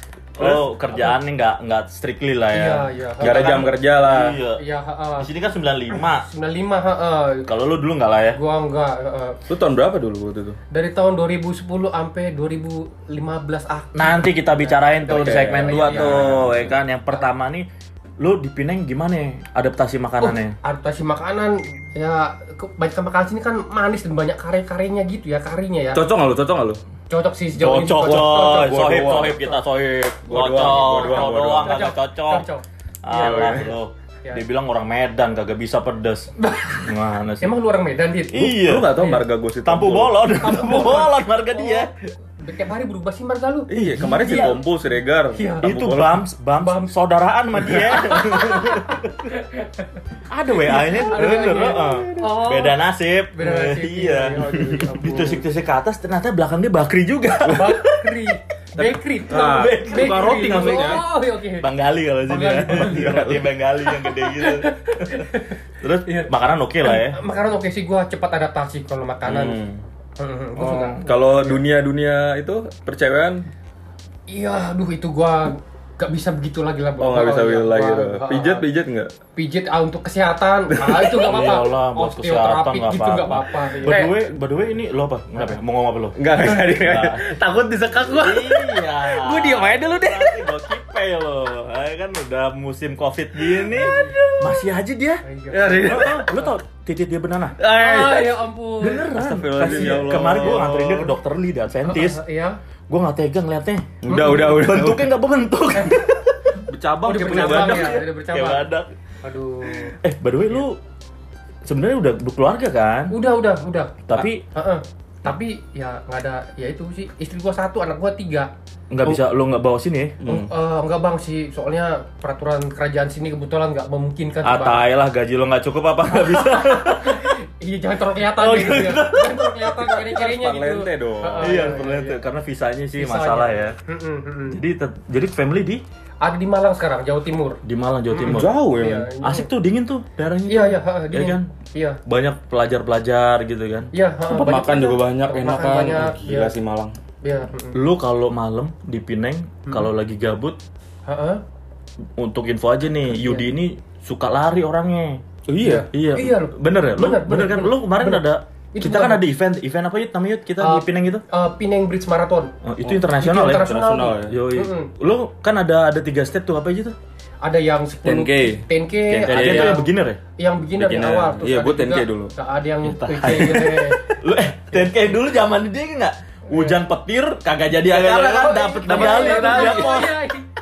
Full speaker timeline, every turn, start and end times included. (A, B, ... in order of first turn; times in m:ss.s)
0:00.4-0:04.6 A
0:02.5-0:03.7 B
0:03.2-0:04.4 C
0:04.6-0:05.3 B
0:05.2-0:06.2 A
0:05.9-0:07.5 B
0:07.5-0:08.4 A
0:08.3-0:09.4 B
0:09.5-0:10.6 C
0:10.7-0:16.6 B
0:13.9-0:17.7 A
0:15.1-0:16.7 C
0:18.2-0:20.6 A
0:20.2-0:26.0 B
0:25.9-0:26.8 C
0:27.1-0:29.0 B
0:27.5-0:32.4 A
0:28.0-0:31.8 C
0:30.7-0:34.4 B
0:33.0-0:37.6 A
0:33.1-0:33.7 C
0:36.4-0:39.2 B
0:38.3-0:39.0 A
0:38.5-0:40.2 C
0:39.6-0:41.9 A
0:40.3-0:44.5 B
0:43.7-0:46.2 C
0:43.9-0:44.6 A
0:45.3-0:45.7 B
0:45.6-0:49.1 A
0:46.6-0:46.9 B
0:47.6-0:50.0 B
0:50.3-0:58.2 A
0:50.6-0:52.7 B
0:51.2-0:52.2 C
0:53.3-0:55.4 B
0:57.4-1:01.7 B
0:58.8-1:01.0 A
0:59.3-1:01.0 C
1:01.6-1:05.3 A
1:02.2-1:03.3 B
1:02.8-1:03.4 C
1:03.8-1:06.3 B
1:05.8-1:07.2 A
1:06.8-1:09.6 B
1:09.2-1:09.8 C
1:10.2-1:11.6 B
1:10.6-1:13.5 C
1:14.3-1:18.6 B
1:17.0-1:19.1 C
1:19.3-1:24.1 B
1:20.7-1:21.2 C
1:21.2-1:27.4 A
1:26.2-1:30.5 C
1:28.1-1:37.6 A
1:33.5-1:34.4 C
1:33.7-1:34.2 B
1:35.2-1:36.5 B
1:35.5-1:36.3 C
1:37.6-1:38.4 C
1:37.7-1:40.8 B
1:38.8-1:42.2 A
1:39.0-1:41.1 C
1:41.8-1:42.6 B
1:42.9-1:46.4 A
1:44.0-1:45.1 C
1:44.1-1:44.5 B
1:46.7-1:48.0 C
1:47.0-1:48.7 B
1:47.2-1:48.9 A
1:49.2-1:50.0 B
1:50.0-1:50.8 A
1:51.6-1:53.2 A
1:53.1-1:58.5 B
1:54.1-1:54.4 A
1:58.9-2:00.2 A
2:00.2-2:00.5 C
2:00.2-2:04.8 B
2:04.4-2:07.3 A
2:06.1-2:12.2 B
2:08.2-2:10.0 A
2:09.9-2:11.6 C
2:11.4-2:13.8 A
2:13.0-2:14.6 B
2:14.5-2:15.8 A
2:16.2-2:19.5 B
2:17.6-2:18.6 A
2:18.2-2:19.1 C
2:19.2-2:21.5 A
2:20.5-2:22.0 B
2:22.0-2:23.9 A
2:23.9-2:26.5 B
2:24.3-2:26.9 C
2:27.2-2:27.8 B
2:27.7-2:30.6 A
2:31.1-2:31.4 B
2:32.2-2:35.2 A
2:33.1-2:33.5 B
2:35.5-2:35.9 C
2:35.6-2:39.2 B
2:35.9-2:41.2 A
2:40.6-2:42.5 B
2:42.6-2:47.0 A
2:43.2-2:44.9 B
2:43.6-2:44.4 C
2:47.4-2:54.1 B
2:48.0-2:48.7 C
2:49.1-2:50.2 A
2:49.2-2:49.8 C
2:50.8-2:52.3 C
2:52.9-3:00.2 A
2:53.1-2:53.8 C
2:56.5-2:56.8 B
2:57.8-3:00.1 C
2:58.3-3:00.5 B